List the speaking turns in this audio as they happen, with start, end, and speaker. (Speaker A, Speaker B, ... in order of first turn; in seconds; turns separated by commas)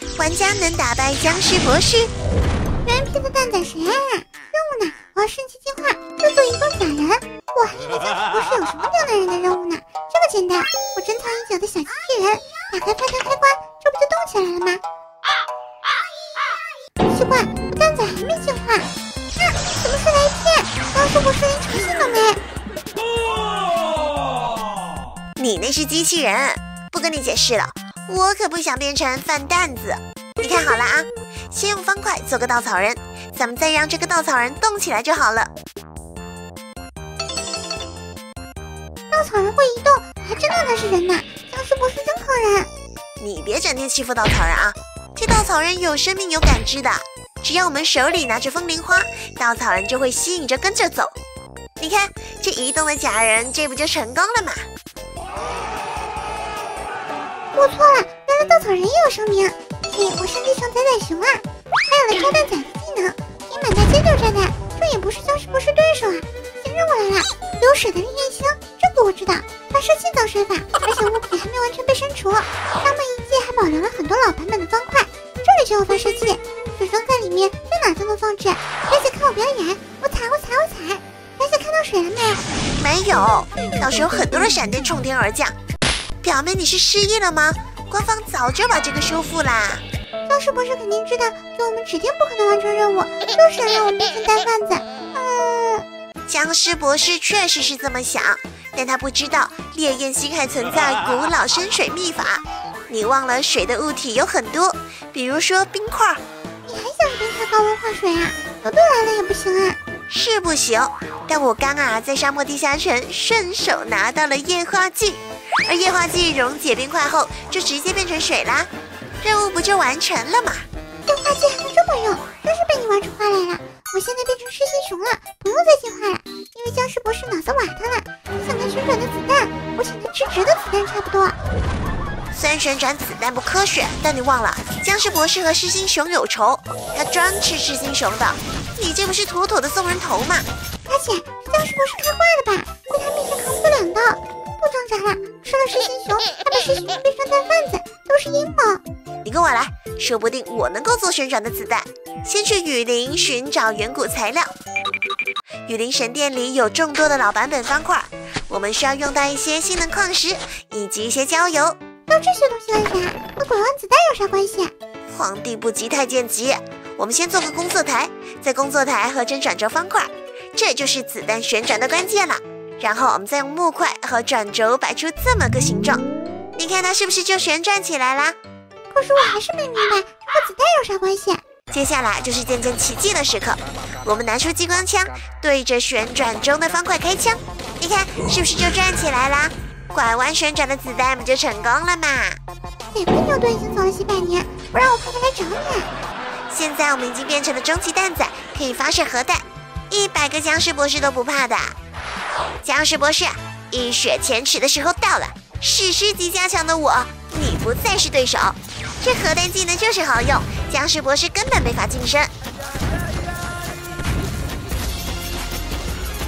Speaker A: 0.2-2.1, Speaker B: 2.9-14.8, Speaker B: 17.1-22.4, Speaker A: 25.4-35.5, Speaker B: 39.1-42.7, Speaker A: 43.2-51.1, Speaker A: 51.8-54.6, Speaker B: 57.5-82.5, Speaker A: 82.8-85.5, Speaker A: 86.2-89.8, Speaker B: 90.3-95.9, Speaker A: 96.3-106.2, Speaker B: 106.6-109.8, Speaker A: 110.1-118.7, Speaker A: 119.2-120.6, Speaker B: 121.1-131.4, Speaker A: 132.3-140.5, Speaker B: 140.9-148.8, Speaker A: 149.2-154.5, Speaker A: 155.7-161.8, Speaker B: 162.1-164.7, Speaker A: 165.1-176.1, Speaker A: 176.6-178.4, Speaker B: 178.9-181.4, Speaker A: 181.7-192.4, Speaker B: 192.9-195.9, Speaker A: 196.5-201.8, Speaker A: 202.6-212.3